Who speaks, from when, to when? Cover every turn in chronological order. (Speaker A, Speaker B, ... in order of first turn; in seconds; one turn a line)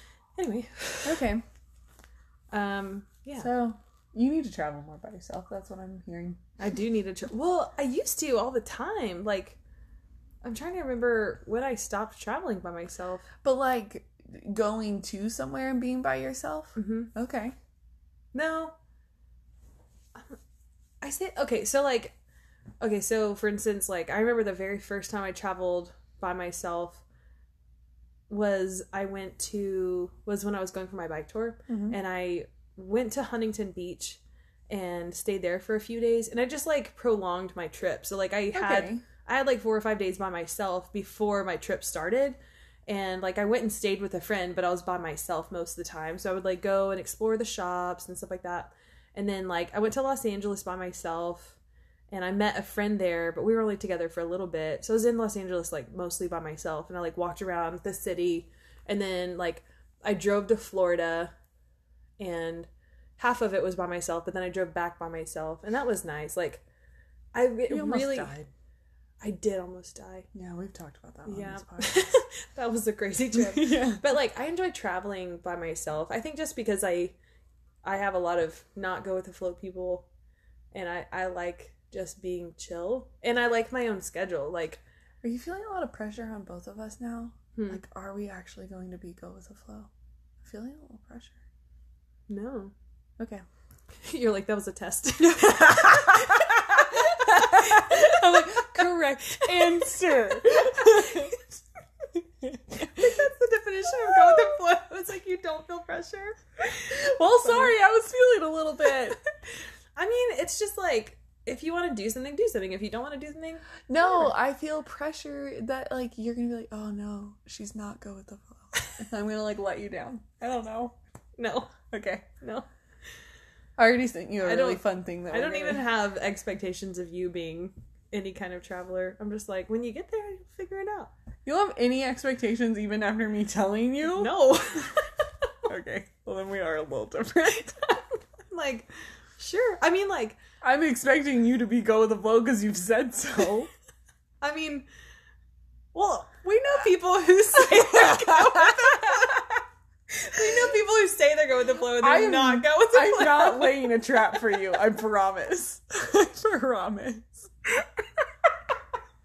Speaker A: 0.4-1.2
Speaker B: 1.1-1.4
Speaker A: 2.5-3.5
Speaker B: 3.4-6.4
Speaker A: 6.6-9.6
Speaker A: 10.4-13.3
Speaker B: 13.4-17.6
Speaker A: 16.8-17.1
Speaker A: 18.3-18.8
Speaker A: 21.0-22.2
Speaker A: 22.8-27.0
Speaker A: 28.3-51.6
Speaker B: 31.7-32.0
Speaker B: 38.5-39.0
Speaker A: 52.1-61.3
Speaker A: 62.2-66.6
Speaker A: 67.3-68.3
Speaker B: 67.7-68.5
Speaker A: 69.2-70.3
Speaker B: 70.3-72.2
Speaker A: 71.3-77.2
Speaker B: 73.3-74.0
Speaker A: 77.8-80.1
Speaker A: 80.7-84.8
Speaker B: 85.2-89.9
Speaker A: 87.6-87.8
Speaker B: 90.4-91.4
Speaker A: 92.3-92.7
Speaker B: 93.2-93.4
Speaker A: 94.0-101.4
Speaker B: 95.3-101.4
Speaker B: 102.2-103.2
Speaker A: 102.8-107.7
Speaker B: 103.9-104.5
Speaker B: 106.8-109.2
Speaker A: 110.0-114.3
Speaker B: 113.9-121.0
Speaker A: 121.4-121.8
Speaker B: 121.9-122.3
Speaker A: 122.4-122.7
Speaker B: 123.8-125.9
Speaker A: 124.4-131.1
Speaker B: 131.4-134.4
Speaker A: 134.0-135.1
Speaker B: 135.7-137.8
Speaker A: 137.9-140.4
Speaker B: 140.6-143.7
Speaker A: 144.4-144.9
Speaker A: 145.9-149.5
Speaker B: 147.7-149.4
Speaker A: 150.2-154.0
Speaker B: 151.9-157.5